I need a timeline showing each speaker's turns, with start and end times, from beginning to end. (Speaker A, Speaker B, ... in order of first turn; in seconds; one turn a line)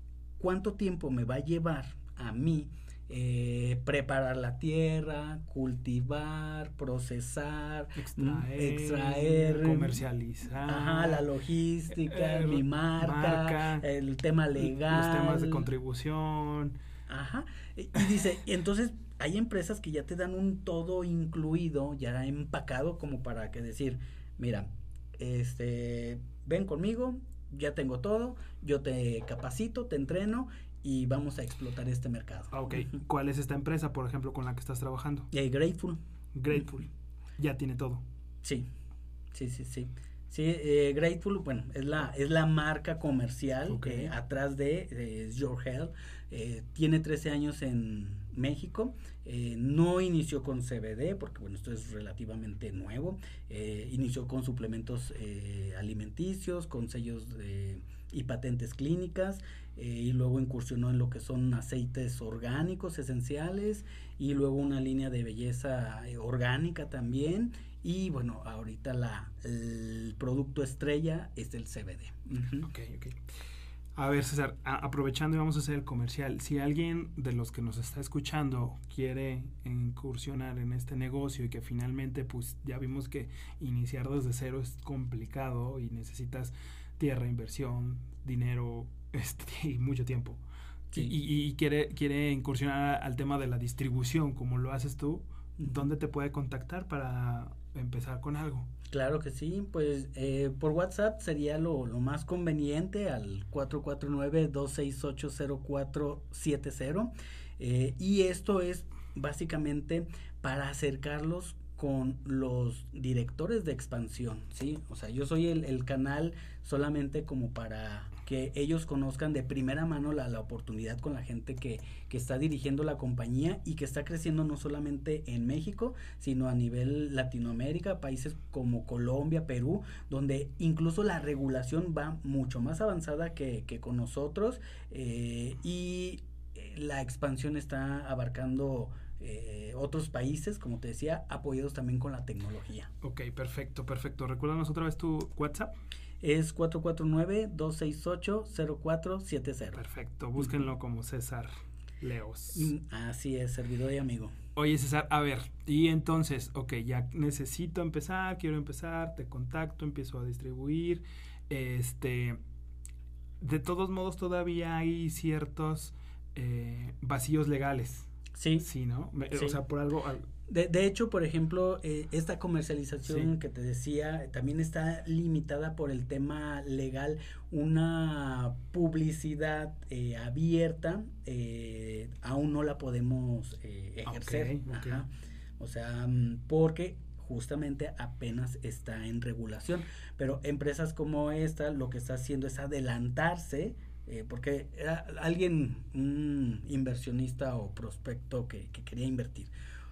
Speaker A: 0.4-10.1
Speaker B: 8.0-11.3
Speaker A: 10.7-15.7
Speaker B: 11.9-13.9
Speaker B: 14.7-16.8
Speaker A: 17.1-32.8
Speaker B: 32.5-35.3
Speaker A: 35.3-36.0
Speaker B: 36.4-38.0
Speaker A: 38.4-38.7
Speaker A: 39.3-72.7
Speaker B: 43.7-44.1
Speaker B: 72.7-73.2
Speaker B: 74.0-98.7
Speaker A: 95.6-95.9
Speaker A: 98.9-142.9
Speaker B: 143.0-145.7
Speaker A: 146.2-149.8
Speaker B: 149.8-152.7
Speaker A: 152.5-154.3
Speaker B: 154.6-162.4
Speaker B: 163.4-168.1
Speaker A: 168.3-168.7
Speaker B: 168.6-170.2
Speaker A: 169.2-169.6
Speaker A: 170.5-199.5
Speaker B: 184.1-185.0